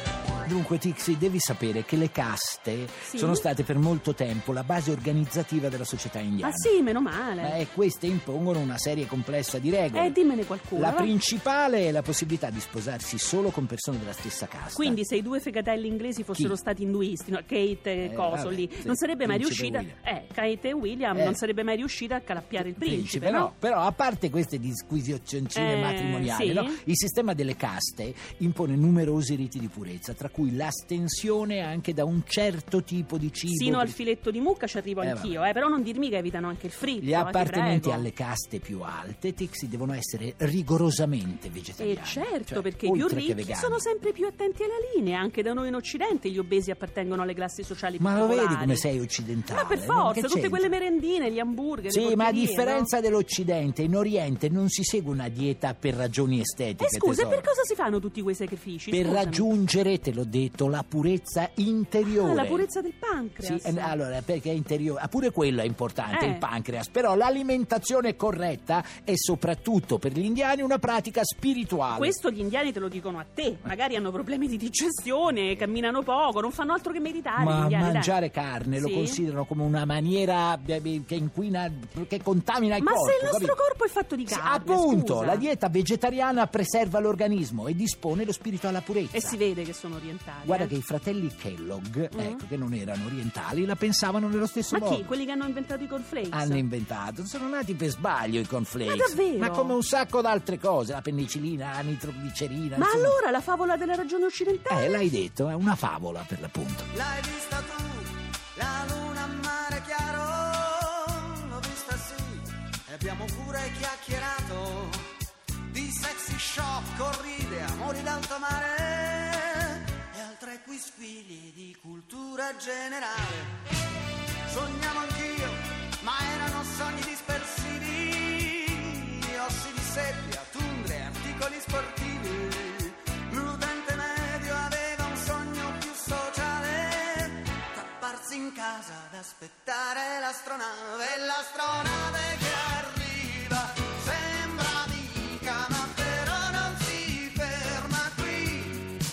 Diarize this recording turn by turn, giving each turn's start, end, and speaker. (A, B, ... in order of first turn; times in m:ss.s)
0:00.4-0:06.7 A
0:03.0-0:03.4 B
0:06.4-0:07.6 B
0:07.4-0:10.2 A
0:09.9-0:11.1 B
0:10.7-0:15.0 A
0:14.7-0:23.5 B
0:18.0-0:20.0 A
0:21.1-0:21.4 A
0:22.6-0:34.0 A
0:25.5-0:26.8 B
0:33.5-0:38.1 B
0:35.0-0:35.4 A
0:37.0-0:43.8 A
0:41.8-0:48.9 B
0:48.0-0:50.7 A
0:49.5-0:52.9 B
0:51.9-0:57.5 A
0:56.8-0:59.5 B
0:58.9-1:02.7 A
1:02.1-1:03.9 B
1:03.4-1:12.2 A
1:06.1-1:06.4 B
1:11.9-1:18.1 B
1:17.4-1:23.6 A
1:18.7-1:19.2 B
1:22.8-1:25.5 B
1:24.3-1:29.4 A
1:29.1-1:30.7 B
1:30.4-1:35.1 A
1:32.1-1:32.4 B
1:34.7-1:36.6 B
1:36.3-1:43.2 A
1:38.8-1:39.8 B
1:42.8-1:45.0 B
1:44.7-1:46.9 A
1:46.9-1:55.1 C
1:55.6-2:03.6 C
2:04.5-2:29.0 C